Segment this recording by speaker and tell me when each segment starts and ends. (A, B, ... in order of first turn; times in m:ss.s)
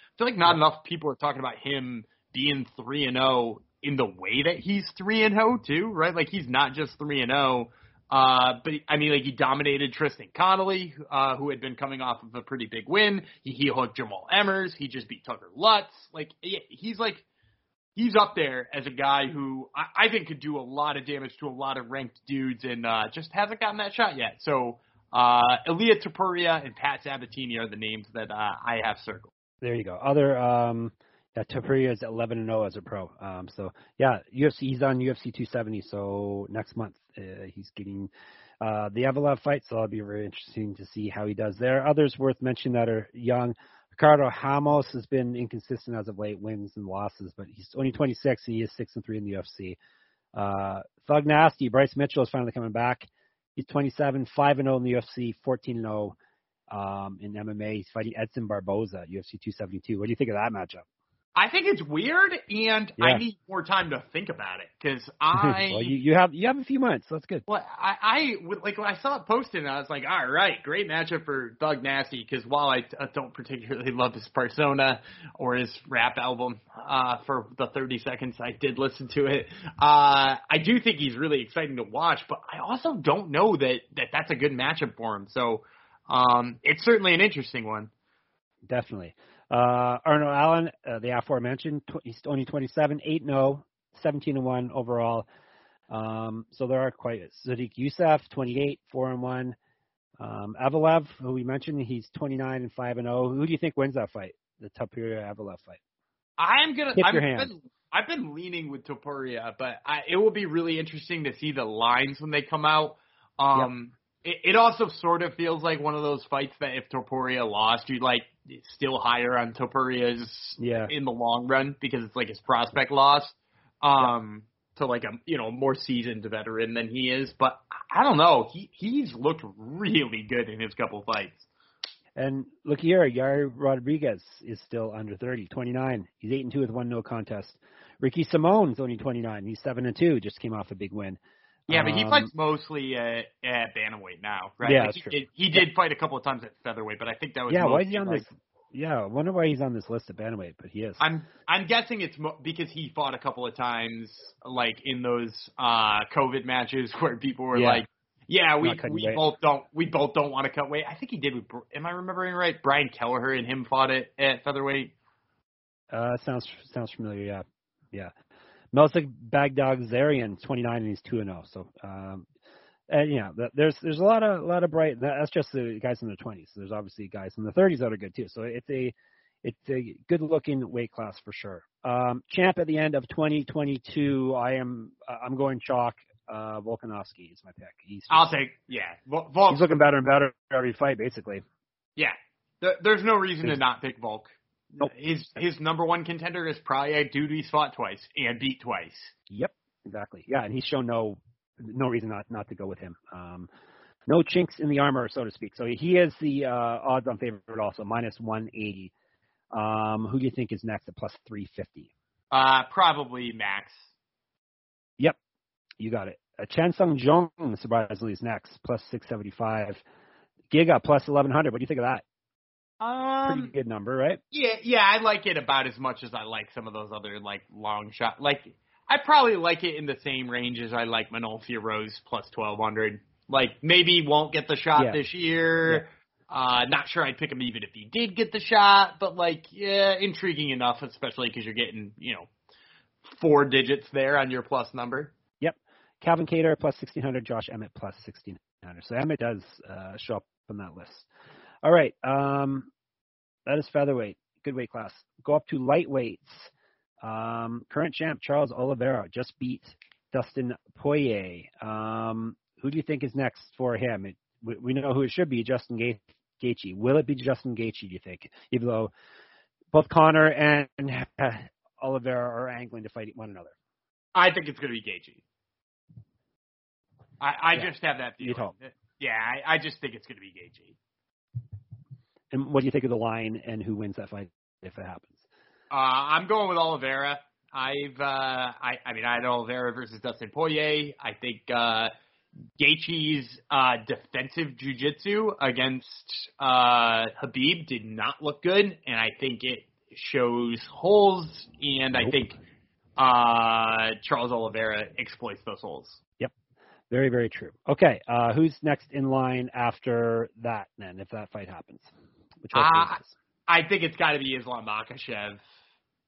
0:00.2-0:17.2 A
0:18.0-0:29.3 A
0:29.6-0:38.1 B
0:38.6-0:49.8 B
0:50.3-0:56.1 B
0:56.7-1:00.8 B
1:01.4-1:05.9 A
1:03.0-1:03.2 B
1:05.3-1:07.4 B
1:07.5-1:27.9 A
1:28.6-1:35.2 B
1:35.9-1:39.5 B
1:40.2-1:45.8 B
1:46.4-2:11.5 A
1:47.0-1:47.5 B
2:00.6-2:00.9 B
2:12.2-2:22.3 B
2:21.7-2:28.2 A
2:24.6-2:25.6 B
2:27.5-2:31.0 B
2:31.0-2:44.9 A
2:37.5-2:37.8 B
2:38.6-2:39.2 B
2:45.9-2:48.1 B
2:48.7-2:52.2 B
2:52.9-3:08.3 B
3:08.1-3:09.7 A
3:09.5-3:11.4 B
3:12.0-3:19.1 A
3:19.3-3:23.5 B
3:24.1-3:28.9 B
3:29.5-3:31.9 B
3:32.3-3:33.8 A
3:35.8-3:39.8 B
3:40.5-3:42.0 B
3:42.8-3:43.5 A
3:43.2-3:44.2 B
3:44.3-4:02.3 A
4:03.1-4:05.1 A
4:05.4-4:11.1 B
4:11.6-4:12.7 B
4:13.5-4:16.5 B
4:17.0-4:28.9 B
4:29.7-4:33.5 B
4:34.1-4:35.2 A
4:37.2-4:40.8 A
4:38.2-4:38.5 B
4:42.3-4:45.2 B
4:45.7-4:51.9 A
4:52.6-5:02.4 A
5:03.0-5:06.0 A
5:06.9-5:11.9 B
5:12.4-5:13.1 B
5:12.5-5:15.4 A